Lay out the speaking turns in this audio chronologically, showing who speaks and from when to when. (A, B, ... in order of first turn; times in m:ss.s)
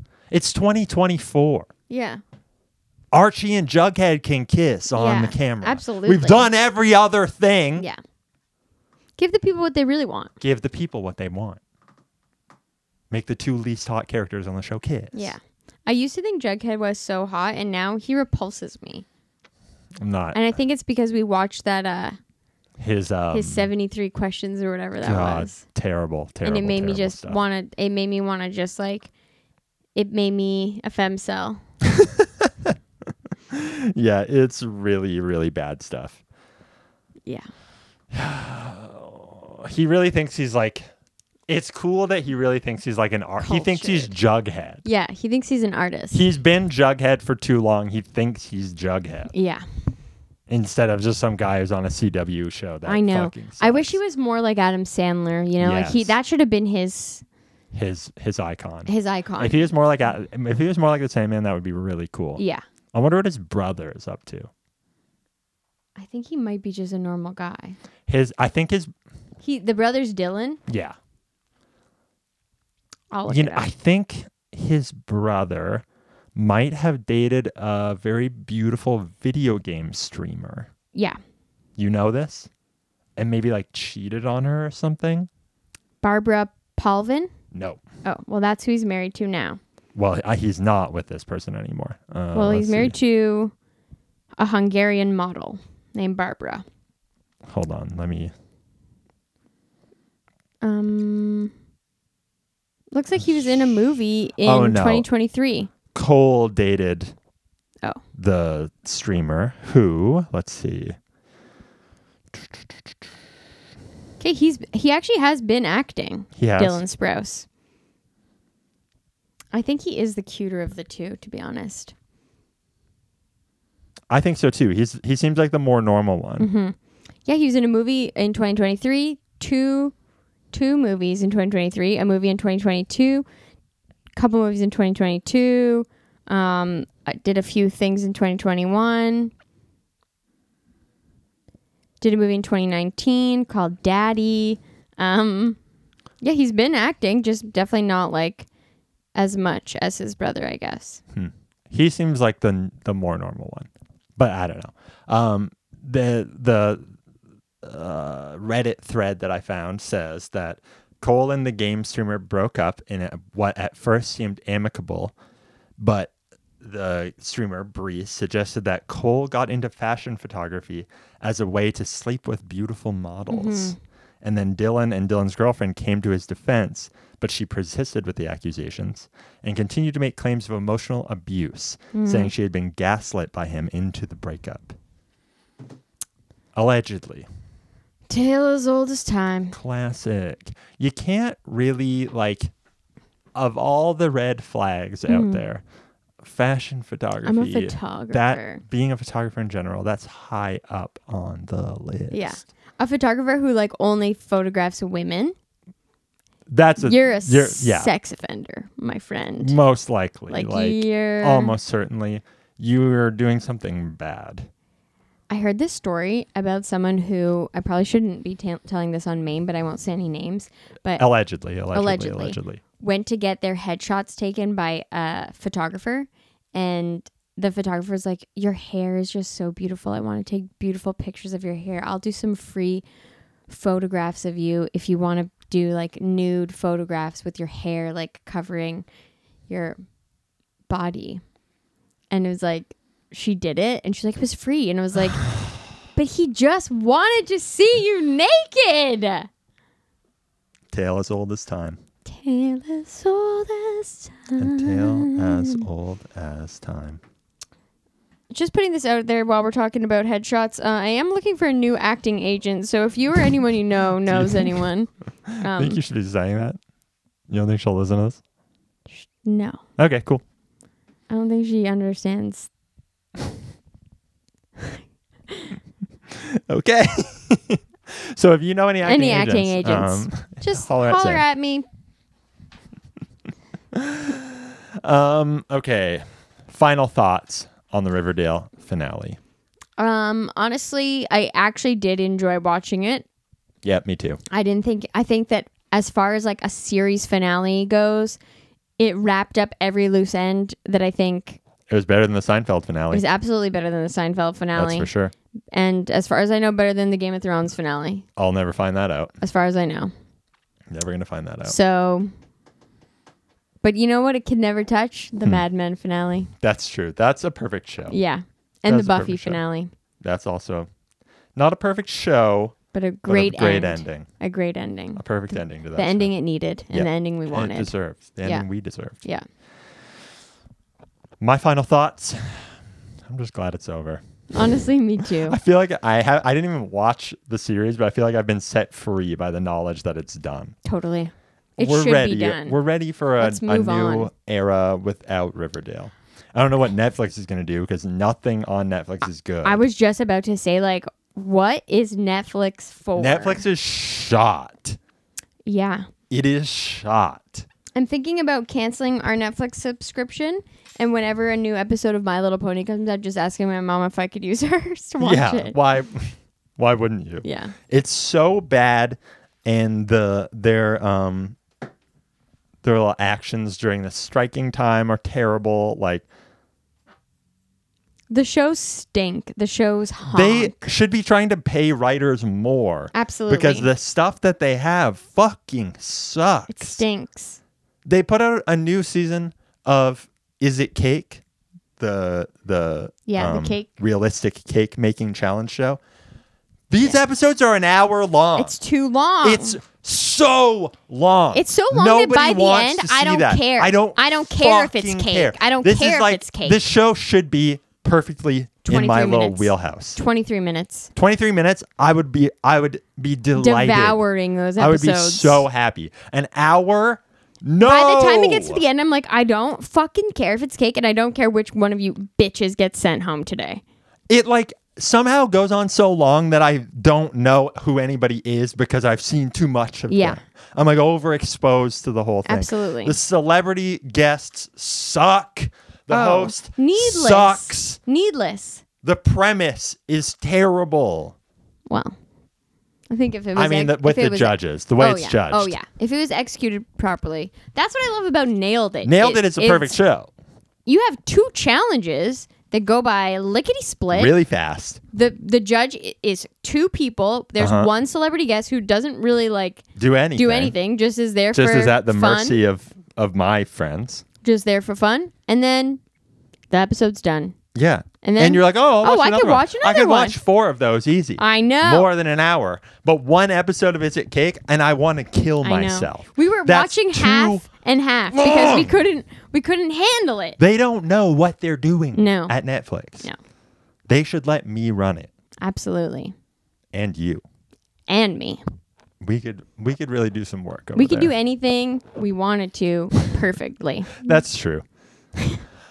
0:00.3-0:01.7 A
0:01.9-0:02.2 B
0:03.1-0:07.9 A
0:04.9-0:06.5 B
0:09.2-0:10.3 B
0:10.4-0:11.6 A
0:13.1-0:15.3 A
0:15.1-0:19.0 B
0:20.0-0:20.4 A
0:20.3-0:22.2 B
0:22.8-0:23.7 A
0:23.3-0:25.6 B
0:25.0-0:27.4 A
0:26.4-0:29.1 B
0:30.0-0:31.6 B
0:31.8-0:32.8 A
0:33.5-0:36.2 A
0:38.1-0:40.9 A
0:41.5-0:44.8 A
0:43.4-0:44.1 B
0:44.8-0:46.2 B
0:46.1-0:49.3 A
0:49.3-0:49.6 B
0:50.5-0:54.0 A
0:52.9-0:57.2 B
0:55.6-0:56.1 A
0:57.7-1:02.4 A
0:58.9-0:59.6 B
1:02.4-1:02.6 B
1:02.9-1:04.5 A
1:06.0-1:07.8 B
1:08.1-1:08.9 A
1:09.4-1:10.6 B
1:10.7-1:11.0 A
1:13.1-1:13.7 B
1:13.3-1:15.8 A
1:16.3-1:20.7 A
1:21.8-1:22.5 A
1:23.2-1:25.3 A
1:26.0-1:27.3 B
1:27.5-1:27.8 A
1:28.0-1:29.6 B
1:29.9-1:32.9 A
1:32.3-1:33.5 B
1:34.4-1:36.6 B
1:37.5-1:38.3 A
1:40.6-1:41.5 B
1:42.9-1:45.7 B
1:44.4-1:45.1 A
1:45.9-1:47.1 A
1:48.1-1:51.0 A
1:54.2-1:57.4 B
1:56.4-1:56.8 A
1:59.5-2:01.9 B
2:04.1-2:06.5 A
2:06.4-2:09.9 B
2:10.5-2:13.2 B
2:14.2-2:19.3 B
2:22.0-2:25.6 B
2:26.2-2:28.5 B
2:29.2-2:31.0 B
2:31.1-2:36.9 A
2:37.6-2:45.1 A
2:45.8-3:04.8 A
2:53.3-2:53.8 B
3:01.9-3:02.3 B
3:06.5-3:07.3 A
3:08.1-3:09.6 B
3:09.5-3:12.5 A
3:13.3-3:15.6 A
3:15.1-3:15.4 B
3:16.2-3:22.4 A
3:17.2-3:18.6 B
3:22.1-3:25.3 B
3:26.5-3:27.9 A
3:26.8-3:29.6 B
3:29.4-3:34.5 A
3:30.3-3:31.6 B
3:35.3-3:41.1 B
3:41.0-3:42.6 A
3:41.7-3:52.8 B
3:53.5-3:58.8 B
3:59.5-3:59.8 B
4:00.7-4:01.2 B
4:02.1-4:05.3 B
4:05.9-4:09.3 B
4:10.7-4:11.8 A
4:12.0-4:15.6 B
4:14.4-4:17.0 A
4:18.3-4:24.9 B
4:24.1-4:24.6 A
4:25.3-4:26.6 A
4:25.4-4:25.8 B
4:27.3-4:28.2 A
4:29.0-4:29.6 B
4:29.8-4:30.2 A
4:31.1-4:32.5 B
4:36.1-4:41.2 A
4:38.8-4:41.6 B
4:43.7-4:49.2 A
4:49.8-4:53.0 B
4:53.6-4:54.2 A
4:54.3-4:58.2 B
4:58.8-5:01.4 B
5:01.7-5:03.0 A
5:02.9-5:04.9 B
5:04.5-5:05.1 A
5:05.5-5:08.0 B
5:08.2-5:09.2 A
5:09.2-5:09.9 B
5:10.7-5:11.6 A
5:11.4-5:12.1 B
5:13.6-5:16.3 B
5:16.4-5:18.0 A
5:17.9-5:19.7 B
5:18.7-5:19.4 A
5:20.0-5:20.7 A
5:21.4-5:24.1 A
5:22.7-5:25.0 B
5:25.0-5:26.1 A
5:25.8-5:28.4 B
5:26.7-5:29.0 A
5:31.2-5:40.6 A
5:34.3-5:35.4 B
5:40.6-5:42.6 B
5:41.6-5:49.6 A
5:43.2-5:44.1 B
5:49.4-5:53.4 B
5:53.0-5:54.8 A
5:55.4-5:55.9 B
5:56.1-5:57.4 A
5:57.7-6:05.6 B
6:05.0-6:11.4 A
6:07.2-6:07.5 B
6:12.6-6:16.0 A
6:18.1-6:20.7 B
6:20.1-6:26.8 A
6:22.9-6:23.7 B
6:26.5-6:27.4 B
6:27.8-6:31.2 A
6:31.8-6:35.8 A
6:33.0-6:33.7 B
6:36.7-6:38.6 A
6:38.4-6:39.6 B
6:39.2-6:50.0 A
6:41.3-6:46.6 B
6:48.6-6:50.9 B
6:50.9-6:54.0 A
6:53.3-6:55.4 B
6:54.6-6:58.6 A
6:57.6-7:03.6 B
7:04.1-7:17.8 A
7:09.9-7:10.2 B
7:12.2-7:12.9 B
7:15.9-7:18.6 B
7:18.8-7:21.1 A
7:21.7-7:22.0 B
7:22.9-7:29.8 B
7:23.3-7:25.5 A
7:28.8-7:30.1 A
7:30.6-7:34.1 B
7:33.9-7:34.8 A
7:34.9-7:39.6 B
7:37.4-7:37.7 A
7:39.8-7:40.5 A
7:40.2-7:42.4 B
7:41.3-7:44.0 A
7:44.2-7:45.8 B
7:46.5-7:47.3 B
7:47.5-7:57.4 A
7:48.0-7:50.2 B
7:51.2-7:51.9 B
7:55.4-8:00.4 B
7:58.1-7:58.8 A
8:00.4-8:03.1 A
8:01.9-8:02.4 B
8:03.9-8:05.1 A
8:05.4-8:06.1 B
8:06.7-8:07.2 A
8:07.9-8:08.4 B
8:09.0-8:11.1 A
8:10.8-8:14.2 B
8:14.0-8:14.6 A
8:15.2-8:15.4 B